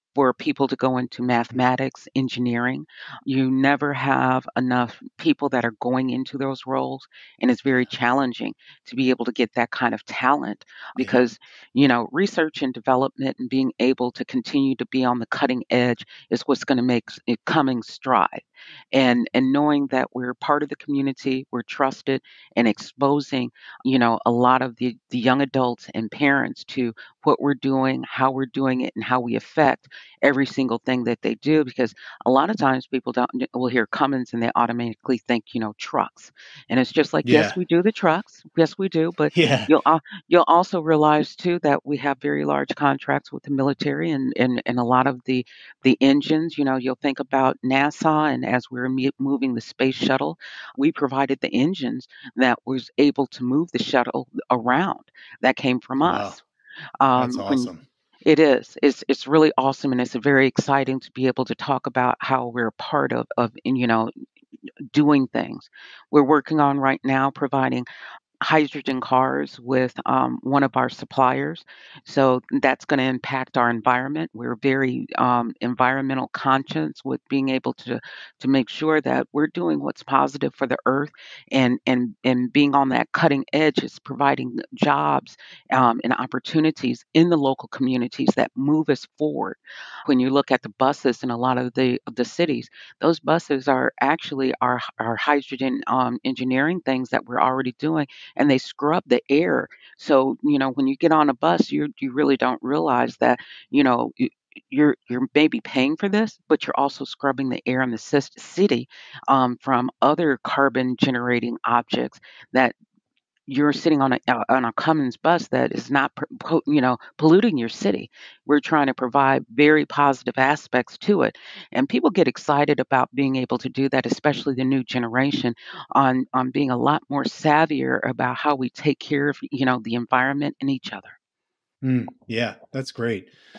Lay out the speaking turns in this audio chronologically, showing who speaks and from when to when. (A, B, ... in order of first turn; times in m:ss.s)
0:00.1-0:56.4 A
0:37.2-0:37.6 B
0:39.3-0:39.7 B
0:56.0-0:56.4 B
0:57.0-0:57.7 A
0:57.2-0:57.8 B
0:58.2-1:04.1 A
1:04.9-1:07.8 A
1:08.4-1:52.7 A
1:53.5-2:11.1 A
2:11.8-2:13.3 B